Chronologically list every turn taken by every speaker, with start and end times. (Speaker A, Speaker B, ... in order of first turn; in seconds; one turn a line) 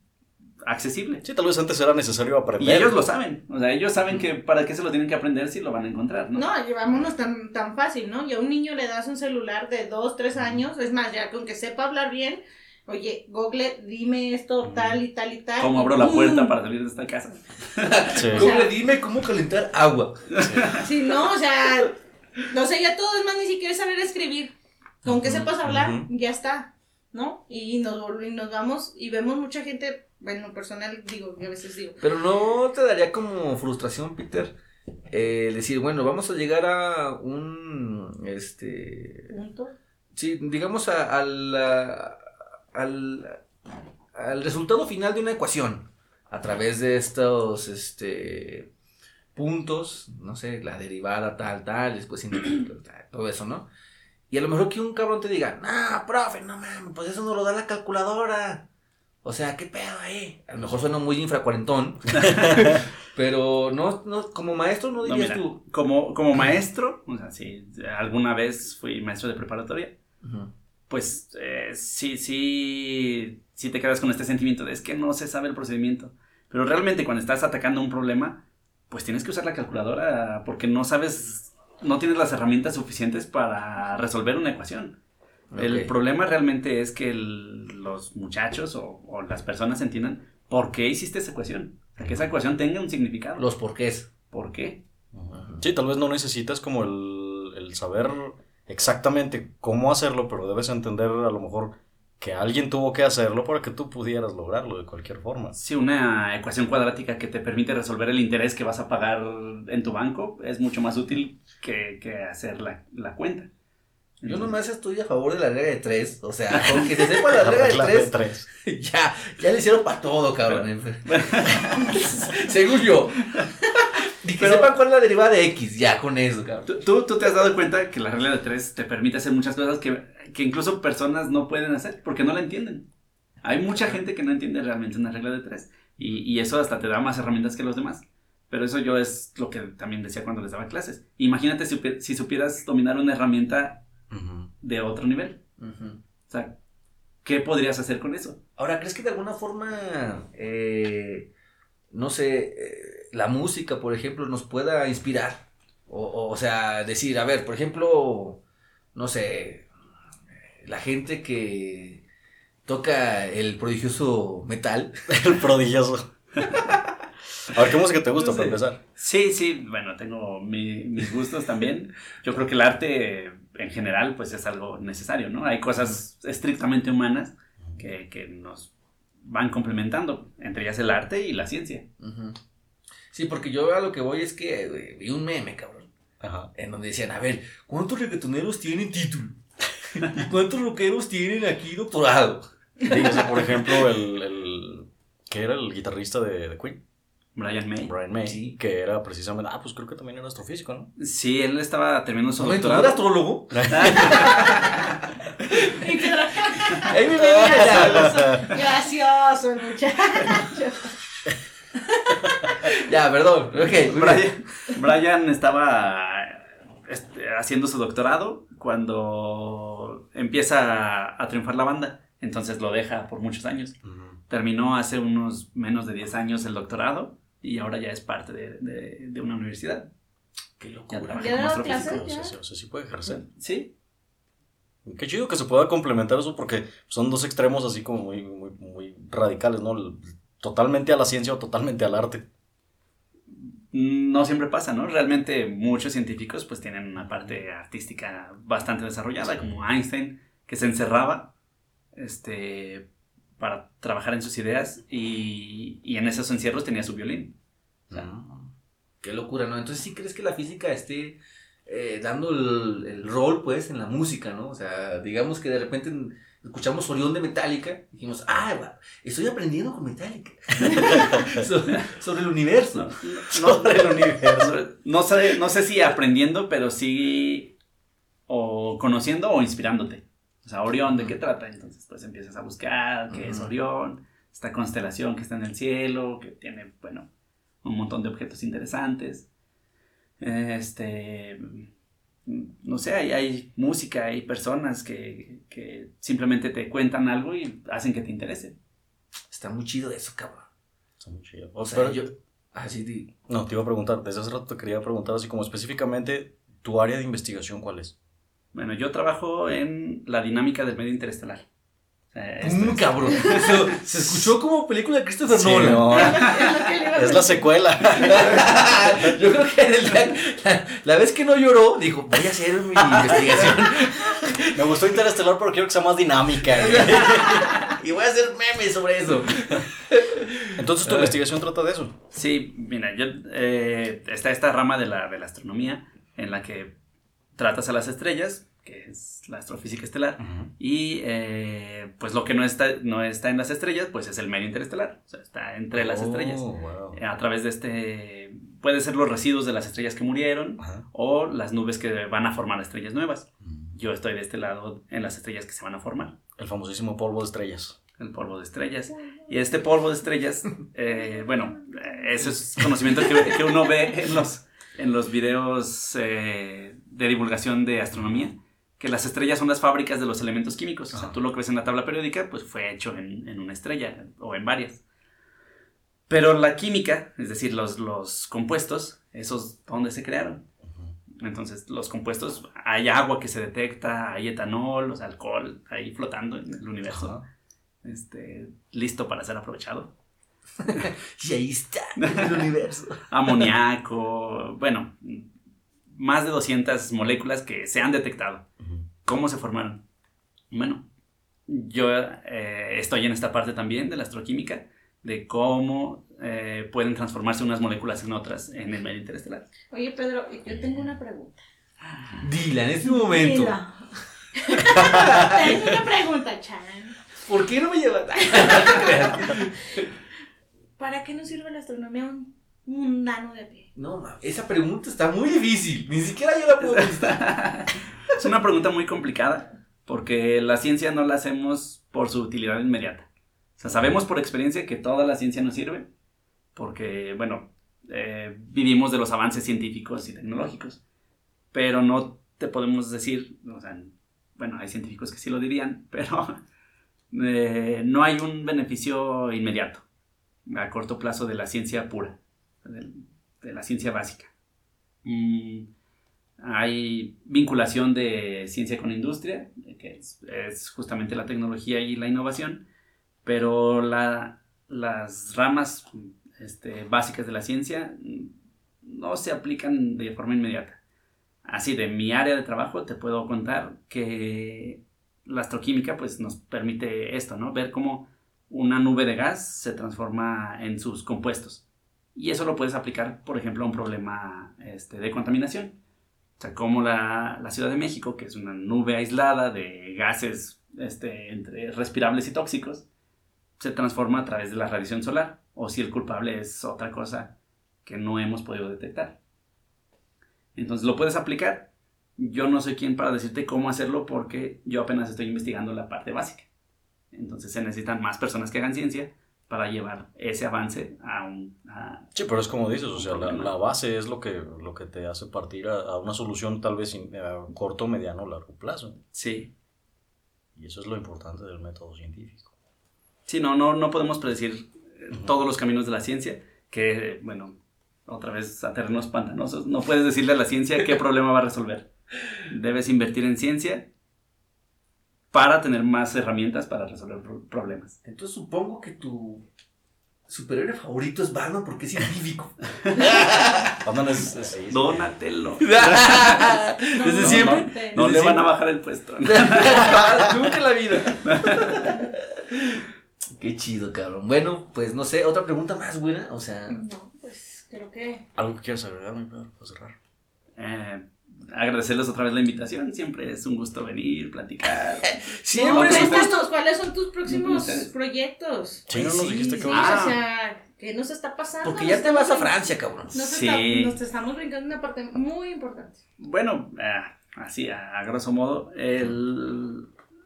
Speaker A: 0.6-1.2
Speaker B: 1.2-3.0
Speaker A: 2.6-6.5
Speaker C: 6.3-16.5
Speaker B: 14.6-15.0
Speaker A: 15.6-18.4
Speaker D: 17.8-20.2
Speaker B: 18.2-18.5
Speaker C: 18.3-18.7
Speaker A: 20.3-20.9
Speaker B: 20.4-20.8
Speaker C: 20.8-21.9
Speaker C: 22.5-24.5
Speaker B: 25.0-26.1
Speaker C: 25.1-32.0
Speaker D: 32.0-34.5
Speaker D: 35.1-39.3
Speaker C: 39.3-39.7
Speaker D: 40.1-42.2
Speaker D: 42.7-43.4
Speaker D: 44.1-48.7
Speaker D: 49.3-53.7
Speaker D: 54.3-58.6
Speaker D: 59.2-65.6
Speaker B: 62.2-62.8
Speaker A: 65.0-70.0
Speaker D: 70.2-70.5
Speaker A: 70.9-85.0
Speaker D: 85.5-85.9
Speaker A: 85.6-93.5
Speaker B: 92.0-92.3
Speaker D: 93.4-94.1
Speaker A: 94.3-94.8
Speaker B: 95.1-105.5
Speaker D: 95.3-95.7
Speaker A: 105.5-113.5
Speaker A: 114.2-114.5
Speaker D: 114.2-118.1
Speaker A: 116.5-117.0
Speaker B: 117.3-118.5
Speaker D: 118.6-121.0
Speaker A: 120.5-122.3
Speaker D: 121.8-123.4
Speaker D: 124.0-126.7
Speaker A: 124.4-124.7
Speaker A: 126.7-132.9
Speaker A: 133.4-143.8
Speaker B: 144.1-144.5
Speaker A: 144.6-145.4
Speaker D: 145.6-146.0
Speaker A: 146.3-146.6
Speaker A: 147.2-148.4
Speaker D: 148.6-151.3
Speaker D: 151.9-158.4
Speaker D: 158.9-159.7
Speaker D: 160.6-162.0
Speaker D: 162.7-164.9
Speaker B: 165.1-166.1
Speaker B: 167.5-168.8
Speaker D: 168.2-168.6
Speaker A: 169.0-178.7
Speaker A: 179.2-181.8
Speaker D: 182.0-182.4
Speaker D: 183.1-185.9
Speaker B: 186.2-186.5
Speaker D: 186.5-192.4
Speaker B: 192.8-196.8
Speaker A: 197.3-197.9
Speaker B: 197.8-200.9
Speaker D: 198.2-198.5
Speaker A: 201.0-203.0
Speaker D: 202.4-204.7
Speaker B: 203.5-204.2
Speaker A: 203.7-204.8
Speaker D: 205.5-205.8
Speaker C: 205.8-210.9
Speaker D: 206.8-208.1
Speaker B: 207.2-208.4
Speaker C: 212.0-212.4
Speaker D: 212.6-214.3
Speaker A: 213.8-223.8
Speaker B: 223.8-224.2
Speaker A: 224.3-229.9
Speaker D: 230.6-231.4
Speaker A: 230.9-232.0
Speaker C: 231.1-232.3
Speaker B: 231.3-233.2
Speaker A: 233.2-233.7
Speaker B: 234.8-242.2
Speaker A: 243.7-251.3
Speaker B: 247.0-247.3
Speaker B: 249.2-249.6
Speaker A: 251.9-252.9
Speaker A: 253.4-257.3
Speaker B: 257.9-258.5
Speaker D: 259.0-272.9
Speaker B: 270.8-271.4
Speaker A: 272.8-277.5
Speaker B: 273.3-274.5
Speaker A: 278.3-287.1
Speaker D: 280.9-281.1
Speaker D: 283.1-283.5
Speaker A: 287.6-289.2
Speaker A: 290.2-291.7
Speaker A: 292.2-298.5
Speaker D: 299.3-300.5
Speaker B: 301.0-302.1
Speaker D: 301.6-303.1
Speaker B: 303.3-307.9
Speaker A: 308.5-311.4
Speaker A: 312.1-313.6
Speaker D: 312.4-316.0
Speaker B: 315.3-316.4
Speaker C: 315.9-317.5
Speaker B: 316.9-318.6
Speaker D: 317.9-324.8
Speaker B: 324.5-327.5
Speaker D: 326.5-331.1
Speaker B: 330.5-331.9
Speaker A: 332.1-336.7
Speaker A: 337.4-356.1
Speaker B: 340.2-340.5
Speaker B: 345.7-347.0
Speaker B: 353.4-353.7
Speaker B: 356.4-357.8
Speaker A: 358.0-374.8
Speaker B: 367.9-368.2
Speaker A: 376.1-380.4
Speaker B: 380.7-380.9
Speaker A: 381.2-387.2
Speaker B: 386.9-387.2
Speaker A: 387.8-389.9
Speaker D: 390.6-393.5
Speaker A: 392.0-392.5
Speaker A: 393.1-395.3
Speaker A: 395.9-398.4
Speaker B: 398.6-398.9
Speaker A: 399.0-399.8
Speaker A: 400.5-400.8
Speaker A: 401.5-409.4
Speaker C: 409.7-411.4
Speaker A: 411.9-412.2
Speaker D: 412.2-413.6
Speaker C: 412.8-416.9
Speaker D: 414.8-415.4
Speaker D: 417.2-419.9
Speaker C: 418.3-419.3
Speaker C: 420.8-423.7
Speaker D: 423.7-427.2
Speaker A: 426.6-433.1
Speaker A: 433.6-435.9
Speaker A: 436.6-440.8
Speaker A: 441.5-446.4
Speaker A: 447.1-449.8
Speaker A: 450.5-454.3
Speaker A: 455.0-455.7
Speaker A: 456.4-462.6
Speaker A: 463.2-470.8
Speaker A: 471.4-481.6
Speaker A: 482.1-485.8
Speaker A: 486.4-492.8
Speaker A: 493.6-497.3
Speaker A: 497.8-499.2
Speaker A: 500.6-506.5
Speaker A: 507.1-512.1
Speaker B: 512.1-519.0
Speaker A: 512.9-513.5
Speaker A: 519.1-519.5
Speaker B: 520.5-522.5
Speaker A: 523.3-527.5
Speaker A: 528.1-531.9
Speaker A: 532.5-533.9
Speaker A: 535.3-538.0
Speaker D: 538.0-539.4
Speaker D: 540.3-543.7
Speaker B: 543.8-545.2
Speaker A: 544.7-550.0
Speaker D: 545.6-548.5
Speaker C: 547.0-548.0
Speaker D: 549.2-552.8
Speaker B: 549.9-550.2
Speaker A: 551.2-551.9
Speaker D: 553.4-556.8
Speaker C: 556.7-558.2
Speaker B: 558.4-559.9
Speaker A: 560.6-566.4
Speaker D: 565.0-566.3
Speaker C: 565.5-576.0
Speaker A: 567.2-567.9
Speaker B: 568.9-570.1
Speaker D: 568.9-569.8
Speaker A: 569.7-570.1
Speaker D: 571.6-573.1
Speaker A: 573.2-574.0
Speaker A: 576.2-579.9